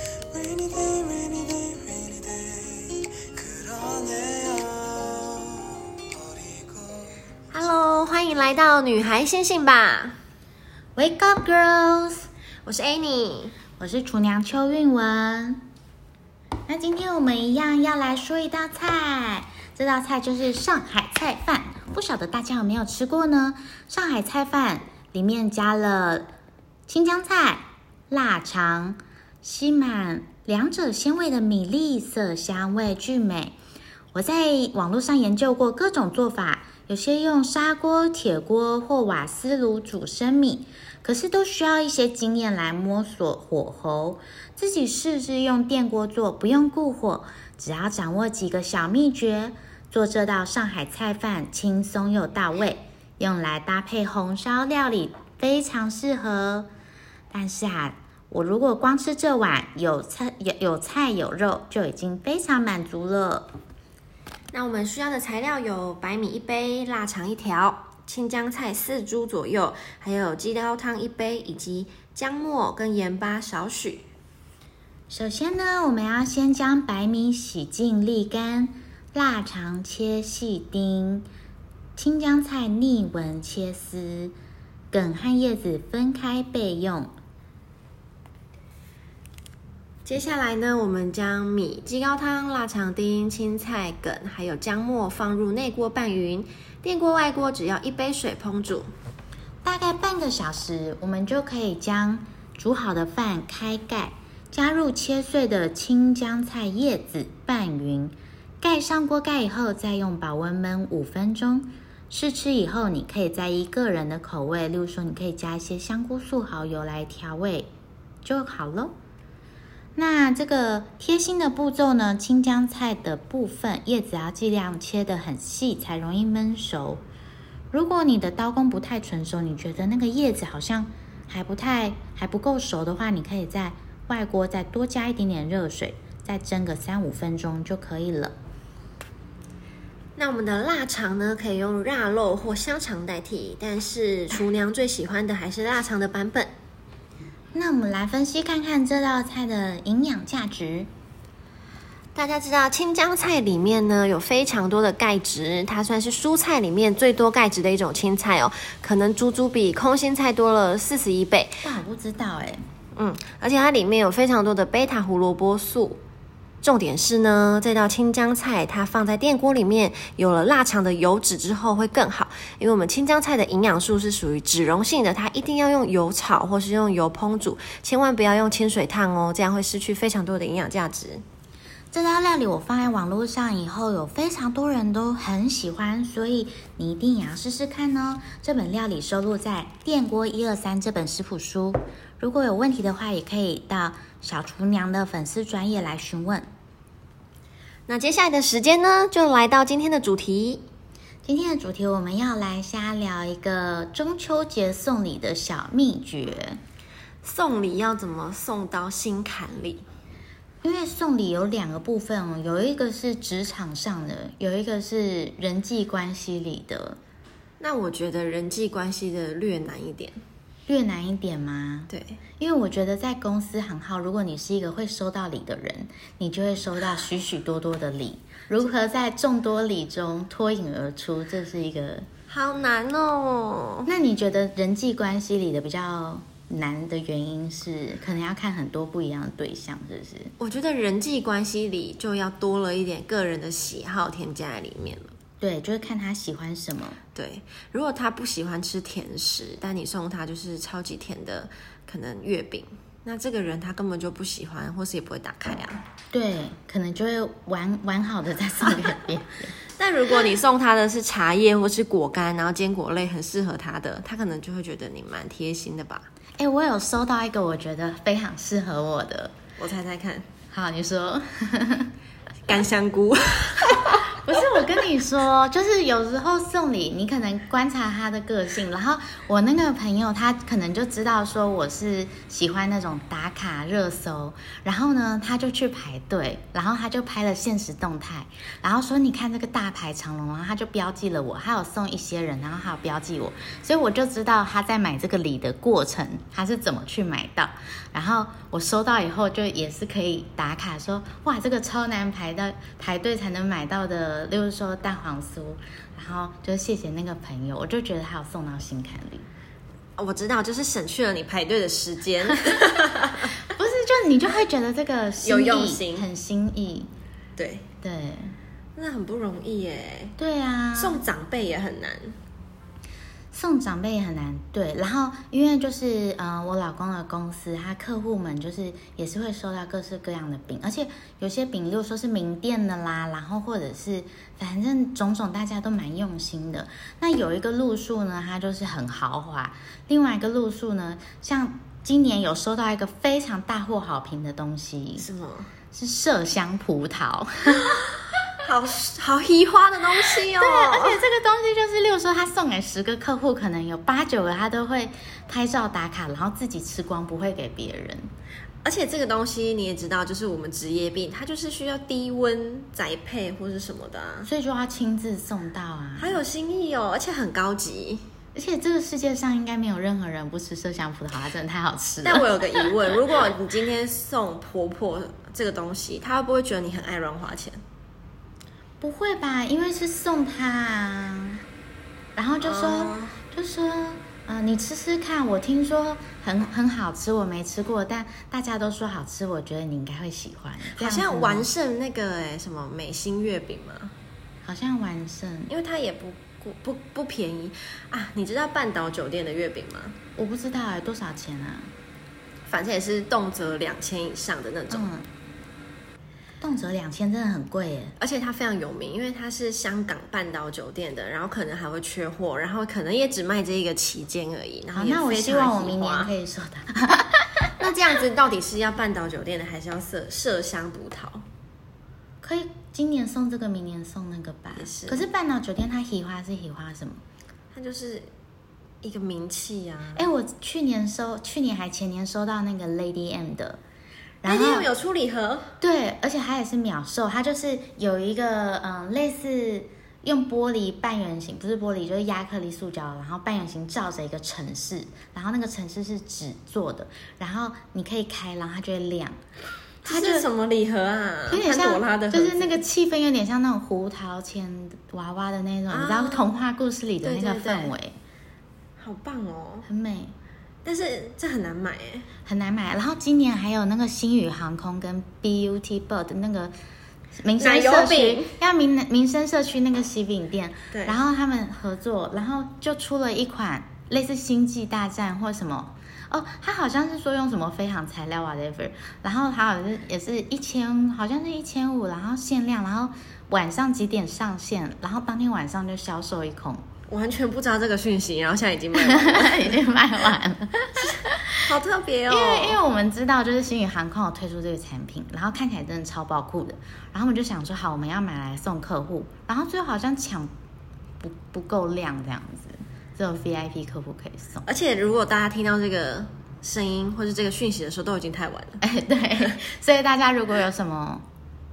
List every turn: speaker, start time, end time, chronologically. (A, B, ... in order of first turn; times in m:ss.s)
0:00.3-0:05.8 A
0:06.4-0:06.8 A
0:07.5-0:10.2 B
0:11.0-0:12.3 C
0:12.6-0:13.6 B
0:13.8-0:15.6 C
0:16.7-0:26.3 C
0:26.9-0:33.6 C
0:34.1-0:56.7 C
0:57.3-1:03.5 C
1:04.5-1:14.1 B
1:15.1-1:21.3 C
1:22.0-1:24.3 C
1:24.9-1:27.1 C
1:30.0-1:38.9 B
1:39.6-1:57.7 C
1:58.2-1:58.9 C
2:00.0-2:07.0 C
2:07.7-2:18.3 C
2:20.2-2:26.5 B
2:27.5-2:30.9 C
2:32.1-2:41.6 B
2:41.6-2:42.6 C
2:42.9-2:46.0 B
2:46.6-3:01.2 B
3:01.9-3:16.5 C
3:17.9-3:20.6 B
3:21.2-3:26.6 C
3:27.2-3:29.8 B
3:30.6-3:37.0 C
3:37.6-3:40.2 B
3:40.7-3:52.0 C
3:41.9-3:42.2 B
3:52.3-3:53.9 B
3:53.8-4:00.3 C
4:00.4-4:05.1 B
4:05.4-4:07.0 C
4:07.1-4:15.8 B
4:16.1-4:19.5 C
4:19.8-4:26.0 B
4:26.4-4:29.3 C
4:29.6-4:30.2 B
4:30.5-4:31.9 C
4:32.5-4:34.0 B
4:34.2-5:09.3 C
5:10.0-5:13.3 B
5:13.5-5:16.9 C
5:15.2-5:16.1 B
5:17.4-5:17.7 B
5:17.8-5:18.3 C
5:18.7-5:20.1 B
5:20.2-5:21.0 C
5:20.7-5:22.2 B
5:23.3-5:45.1 C
5:45.0-5:45.5 B
5:45.7-5:47.8 C
5:48.4-5:51.0 B
5:50.4-5:58.1 C
5:58.6-6:04.3 B
6:04.2-6:06.2 C
6:06.0-6:08.0 B
6:08.3-6:12.7 C
6:12.0-6:17.6 B
6:18.8-6:21.4 C
6:22.2-6:31.5 C
6:22.4-6:23.2 B
6:30.7-6:33.9 B
6:34.4-6:35.5 C
6:35.5-6:40.0 B
6:40.2-6:41.7 C
6:42.5-6:44.9 B
6:44.7-6:45.1 C
6:46.4-6:48.0 C
6:48.0-6:56.1 B
6:54.7-6:57.5 C
6:57.6-7:01.2 B
7:02.2-7:07.0 C
7:04.6-7:05.0 B
7:07.5-7:08.1 B
7:08.8-7:10.1 B
7:10.0-7:13.6 C
7:14.2-7:14.7 C
7:14.2-7:15.5 B
7:15.6-7:29.2 C
7:29.8-7:30.3 C
7:29.8-7:32.6 B
7:31.3-7:38.0 C
7:35.7-7:36.3 B
7:37.0-7:37.7 B
7:38.8-7:39.7 B
7:39.6-7:40.1 C
7:40.6-7:42.1 B
7:42.2-7:46.5 C
7:47.2-8:06.6 C
7:47.4-7:48.3 B
7:50.7-7:51.0 B
8:06.9-8:09.6 B
8:08.7-8:11.2 C
8:10.8-8:12.6 B
8:12.1-8:20.3 C
8:21.0-8:24.4 C
8:24.4-8:28.6 B
8:28.6-8:31.0 C